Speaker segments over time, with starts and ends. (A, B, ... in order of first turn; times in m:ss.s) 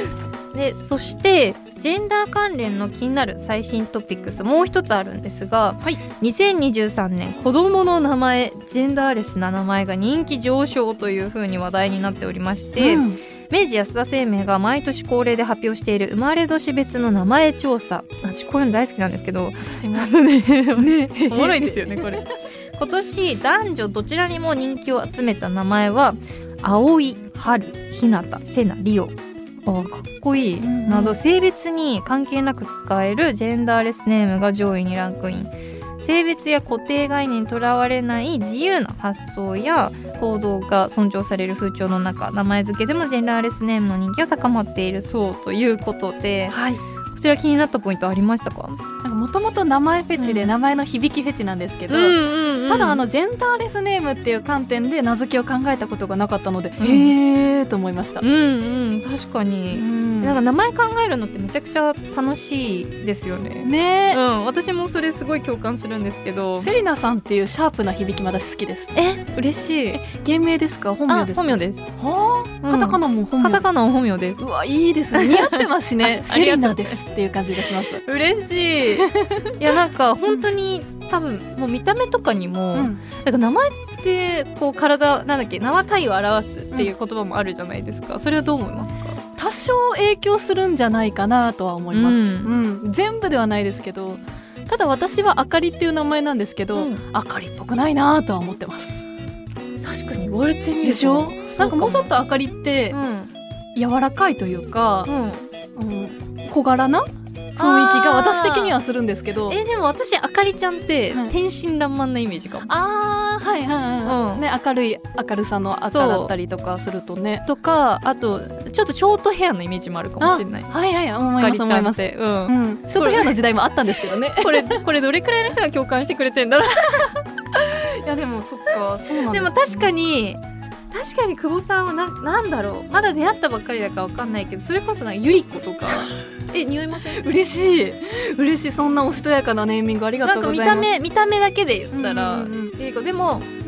0:00.5-0:46.6 A
0:12.8-0:13.2 B
0:19.6-0:20.2 B
0:20.8-0:22.1 B
0:30.6-0:31.2 B
0:46.5-0:46.8 B
0:47.1-0:48.8 A
0:49.0-0:58.2 B
0:50.2-0:50.5 A
0:51.9-0:53.0 A
0:56.8-0:57.1 A
0:58.2-1:06.7 A
0:59.7-1:00.4 B
1:03.6-1:04.2 B
1:06.6-1:08.9 B
1:08.9-1:10.0 A
1:09.9-1:13.6 B
1:11.1-1:11.9 A
1:12.6-1:14.4 A
1:14.4-1:18.0 B
1:15.1-1:17.0 A
1:18.0-1:29.2 A
1:19.0-1:19.5 B
1:22.7-1:23.0 B
1:29.4-1:38.9 B
1:31.9-1:32.5 A
1:36.7-1:37.0 A
1:39.8-1:42.1 A
1:40.8-1:43.0 B
1:42.9-1:43.3 A
1:43.7-1:45.1 B
1:45.1-1:45.5 A
1:45.8-1:47.0 B
1:47.6-1:48.8 A
1:47.6-1:49.6 B
1:49.5-1:52.7 A
1:52.6-1:57.4 B
1:54.0-1:54.4 A
1:55.8-1:56.3 A
1:57.4-2:00.7 A
2:00.2-2:04.8 B
2:01.4-2:03.4 A
2:04.3-2:07.2 A
2:07.8-2:09.9 B
2:09.3-2:10.4 A
2:10.9-2:17.2 A
2:17.1-2:20.9 B
2:20.2-2:23.5 A
2:21.9-2:22.7 B